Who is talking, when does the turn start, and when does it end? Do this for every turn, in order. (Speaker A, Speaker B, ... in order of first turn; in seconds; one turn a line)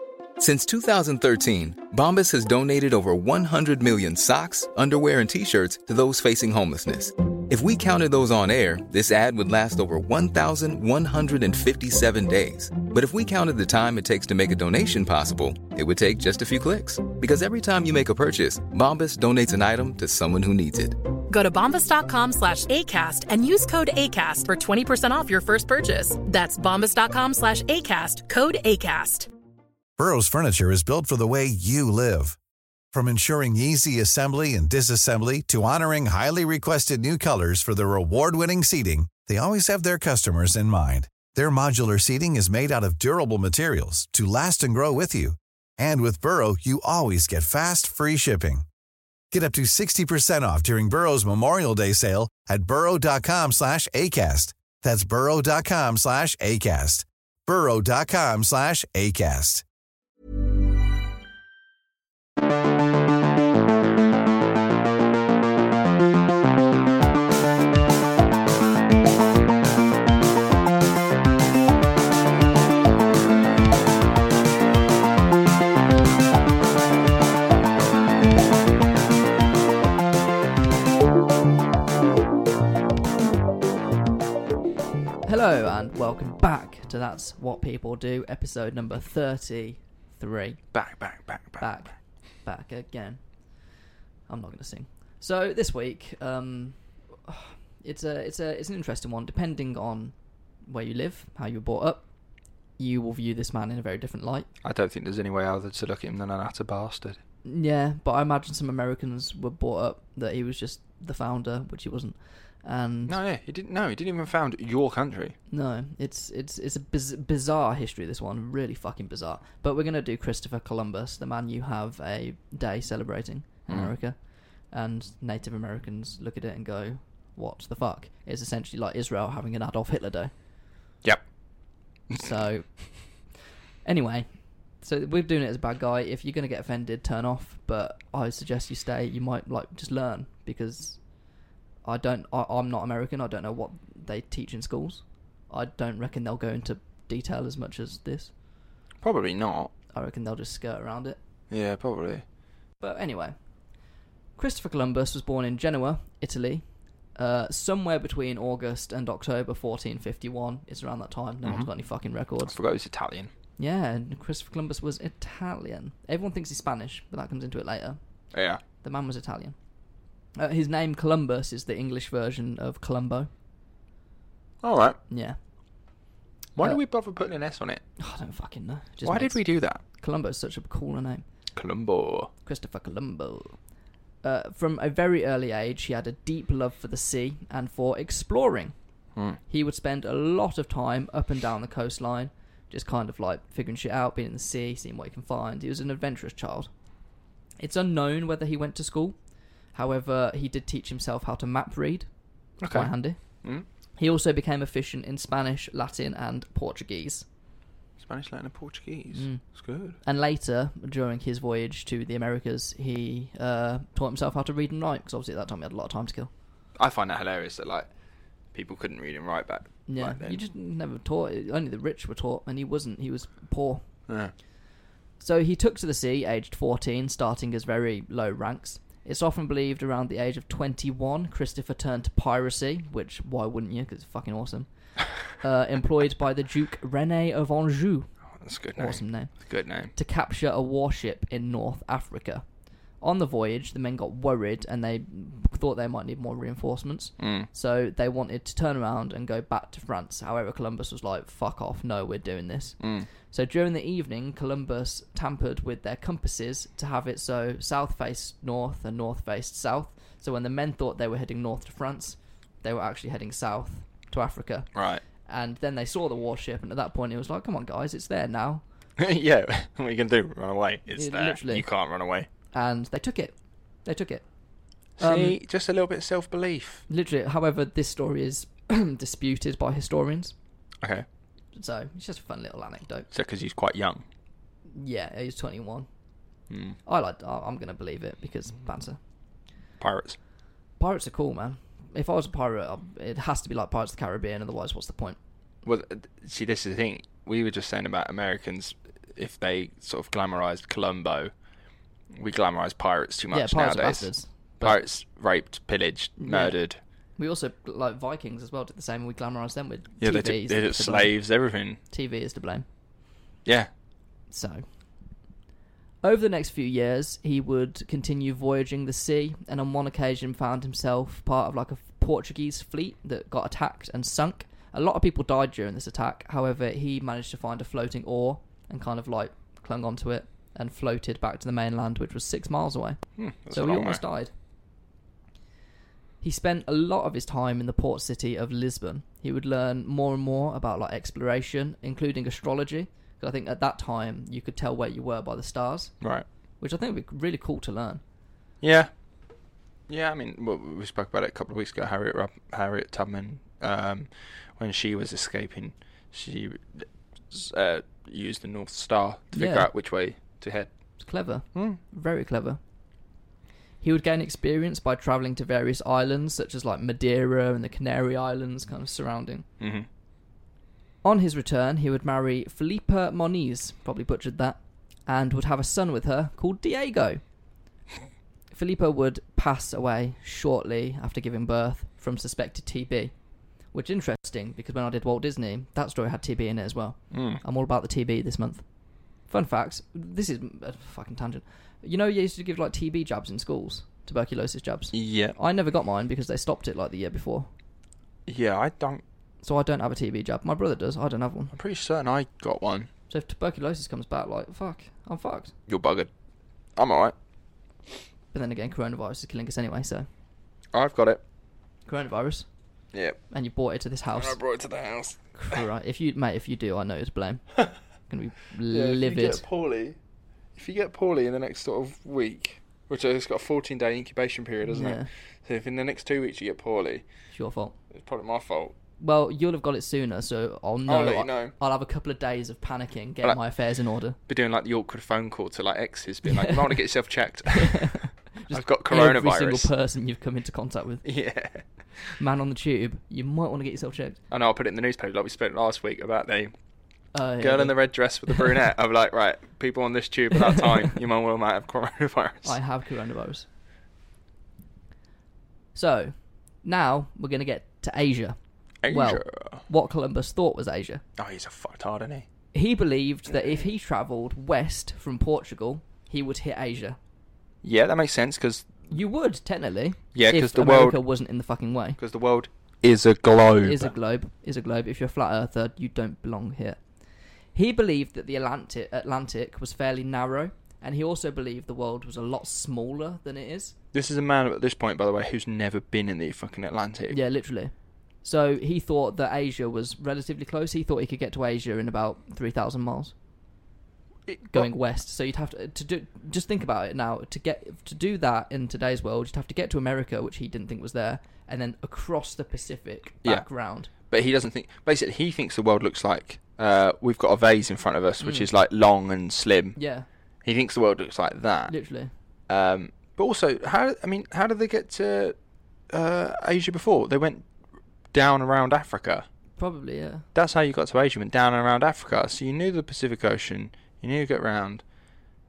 Speaker A: 0.4-21.0
Speaker B: 21.3-29.3
Speaker C: 30.0-32.4
Speaker C: 32.9-48.6
Speaker C: 49.3-59.6
Speaker D: 85.2-90.6
Speaker E: 90.7-91.7
Speaker D: 91.6-93.2
Speaker D: 94.3-100.1
Speaker D: 100.7-102.0
Speaker D: 102.8-104.5
Speaker E: 104.6-107.2
Speaker D: 107.5-113.2
Speaker E: 113.1-115.3
Speaker D: 115.5-130.3
Speaker D: 132.2-133.0
Speaker D: 133.8-134.3
Speaker D: 134.8-141.0
Speaker D: 141.8-148.3
Speaker E: 149.0-149.7
Speaker D: 149.9-151.2
Speaker E: 151.5-152.2
Speaker D: 152.8-153.3
Speaker D: 154.4-156.6
Speaker D: 157.1-162.6
Speaker E: 161.4-161.7
Speaker E: 162.4-163.3
Speaker D: 163.6-168.0
Speaker E: 168.3-168.6
Speaker D: 168.8-169.6
Speaker D: 170.3-173.3
Speaker E: 174.6-175.0
Speaker D: 175.1-175.4
Speaker E: 176.6-177.8
Speaker D: 178.0-179.4
Speaker E: 179.0-179.8
Speaker D: 180.0-181.2
Speaker E: 181.6-182.3
Speaker D: 182.4-183.6
Speaker D: 184.2-188.7
Speaker D: 189.5-196.7
Speaker D: 197.6-199.2
Speaker D: 199.7-202.1
Speaker E: 202.6-203.6
Speaker D: 202.6-203.4
Speaker D: 204.0-207.2
Speaker E: 208.0-209.9
Speaker D: 209.1-209.4
Speaker D: 210.0-216.3
Speaker E: 216.8-217.9
Speaker E: 218.5-220.4
Speaker D: 219.9-223.8
Speaker E: 224.1-224.3
Speaker D: 225.2-234.7
Speaker D: 235.2-238.1
Speaker E: 238.4-239.9
Speaker D: 238.8-239.4
Speaker D: 239.9-242.4
Speaker D: 243.0-264.7
Speaker E: 247.2-247.5
Speaker E: 252.8-253.1
Speaker E: 264.8-265.0
Speaker D: 265.2-268.6
Speaker E: 269.0-272.3
Speaker D: 271.0-271.6
Speaker D: 272.5-273.3
Speaker D: 273.8-274.2
Speaker D: 275.0-275.4
Speaker E: 275.0-276.8
Speaker D: 276.9-280.3
Speaker D: 281.5-283.1
Speaker E: 283.1-284.0
Speaker D: 284.7-285.9
Speaker E: 286.5-286.8
Speaker D: 286.8-289.0
Speaker E: 289.8-290.2
Speaker D: 290.8-295.2
Speaker E: 295.6-301.3
Speaker E: 302.1-304.1
Speaker D: 303.3-304.8
Speaker E: 304.6-306.8
Speaker D: 306.2-306.5
Speaker D: 307.2-311.1
Speaker E: 310.0-311.8
Speaker D: 311.9-312.6
Speaker D: 314.3-314.6
Speaker D: 316.0-333.0
Speaker E: 333.2-334.0
Speaker D: 333.5-334.3
Speaker D: 336.2-345.9
Speaker E: 346.0-346.2
Speaker D: 346.6-348.0
Speaker E: 348.6-348.9
Speaker E: 349.9-360.7
Speaker D: 359.3-359.7
Speaker D: 361.0-362.6
Speaker E: 361.5-361.8
Speaker D: 363.8-369.4
Speaker E: 369.6-369.9
Speaker D: 371.0-377.2
Speaker D: 378.5-383.1
Speaker D: 383.7-388.6
Speaker E: 387.1-387.4
Speaker D: 389.3-397.5
Speaker E: 394.9-395.3
Speaker E: 398.3-399.0
Speaker D: 399.4-401.5
Speaker E: 401.5-402.9
Speaker D: 403.1-405.5
Speaker E: 405.7-406.1
Speaker E: 406.8-407.1
Speaker D: 408.3-410.1
Speaker E: 410.7-411.2
Speaker D: 411.9-412.5
Speaker D: 413.3-414.4
Speaker E: 414.1-415.6
Speaker D: 415.4-417.5
Speaker D: 418.1-419.4
Speaker E: 418.7-419.9
Speaker E: 420.6-427.0
Speaker D: 424.6-425.1
Speaker D: 427.3-427.7
Speaker E: 427.9-428.7
Speaker D: 429.0-434.2
Speaker E: 430.9-431.5
Speaker E: 434.3-437.9
Speaker D: 436.2-436.8
Speaker D: 437.5-441.0
Speaker E: 438.5-439.7
Speaker E: 441.0-442.1
Speaker D: 442.2-444.2
Speaker E: 444.3-446.5
Speaker D: 447.1-447.8
Speaker E: 447.4-452.6
Speaker D: 452.4-453.4
Speaker D: 455.7-458.4
Speaker E: 458.8-459.6
Speaker D: 458.9-461.0
Speaker E: 461.2-462.2
Speaker D: 462.5-467.0
Speaker E: 467.6-468.8
Speaker D: 468.9-472.0
Speaker E: 470.1-471.0
Speaker E: 472.0-473.9
Speaker D: 473.6-476.8
Speaker D: 477.5-483.7
Speaker E: 483.9-487.2
Speaker D: 487.1-493.1
Speaker E: 494.3-494.7
Speaker D: 494.5-503.9
Speaker E: 504.1-509.8
Speaker D: 508.2-508.5
Speaker D: 509.8-510.1
Speaker E: 510.4-511.7
Speaker D: 511.7-512.1
Speaker E: 512.5-515.4
Speaker E: 515.9-517.4
Speaker E: 518.1-519.2
Speaker D: 519.6-520.2
Speaker E: 520.3-524.8